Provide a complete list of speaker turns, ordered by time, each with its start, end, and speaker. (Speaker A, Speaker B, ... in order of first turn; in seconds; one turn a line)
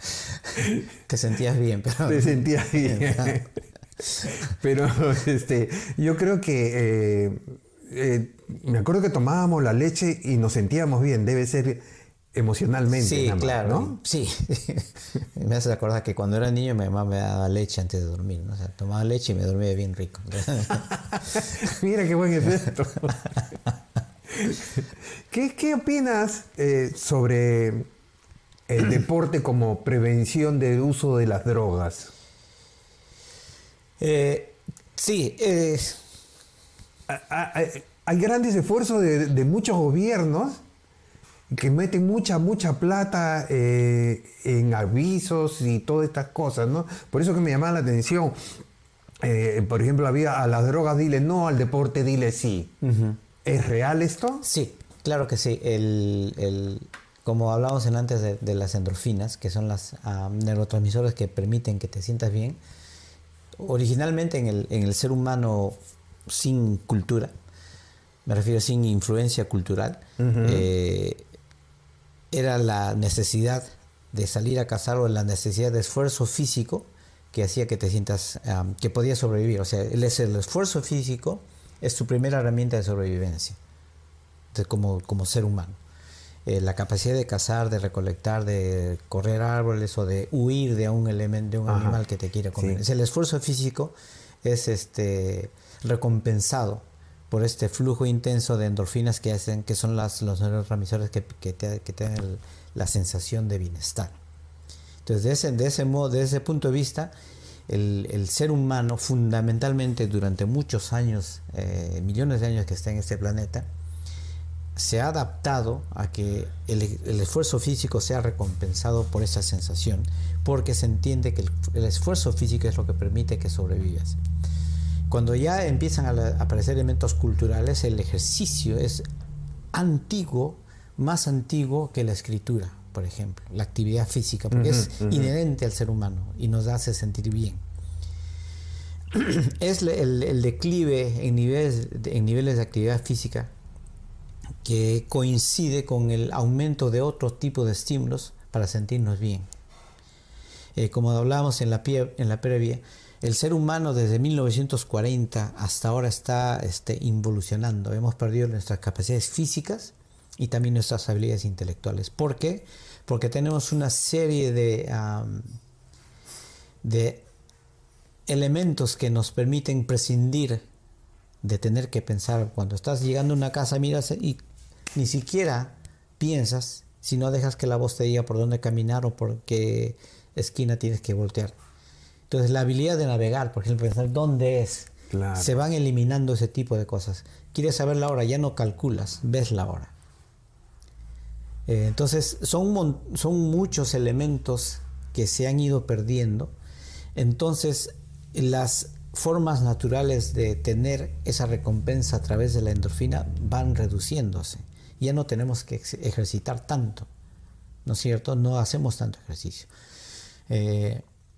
Speaker A: 1.1-3.4
Speaker B: 2.1-3.5
Speaker B: 4.2-11.8
Speaker B: 12.3-14.0
Speaker A: 13.0-20.9
Speaker B: 20.8-23.3
Speaker B: 24.3-27.9
Speaker B: 28.7-32.1
Speaker A: 34.0-36.0
Speaker B: 37.1-40.6
Speaker B: 41.5-48.6
Speaker B: 49.2-52.7
Speaker A: 52.8-53.2
Speaker B: 53.4-54.4
Speaker A: 54.4-62.6
Speaker A: 63.6-67.3
Speaker A: 68.3-71.2
Speaker B: 70.2-70.7
Speaker A: 72.3-83.6
Speaker A: 84.5-85.8
Speaker A: 86.5-104.2
Speaker B: 91.7-92.0
Speaker B: 92.6-92.8
Speaker A: 105.0-107.1
Speaker A: 107.7-113.7
Speaker A: 114.8-124.2
Speaker A: 125.1-129.0
Speaker A: 129.7-137.6
Speaker B: 134.5-135.3
Speaker A: 139.1-143.5
Speaker A: 144.6-149.5
Speaker A: 150.8-165.6
Speaker A: 166.8-167.3
Speaker A: 168.3-170.6
Speaker A: 171.4-174.4
Speaker A: 174.9-181.6
Speaker A: 182.3-189.9
Speaker B: 185.1-185.5
Speaker A: 191.7-196.5
Speaker A: 197.2-207.1
Speaker A: 207.8-209.7
Speaker A: 210.5-211.0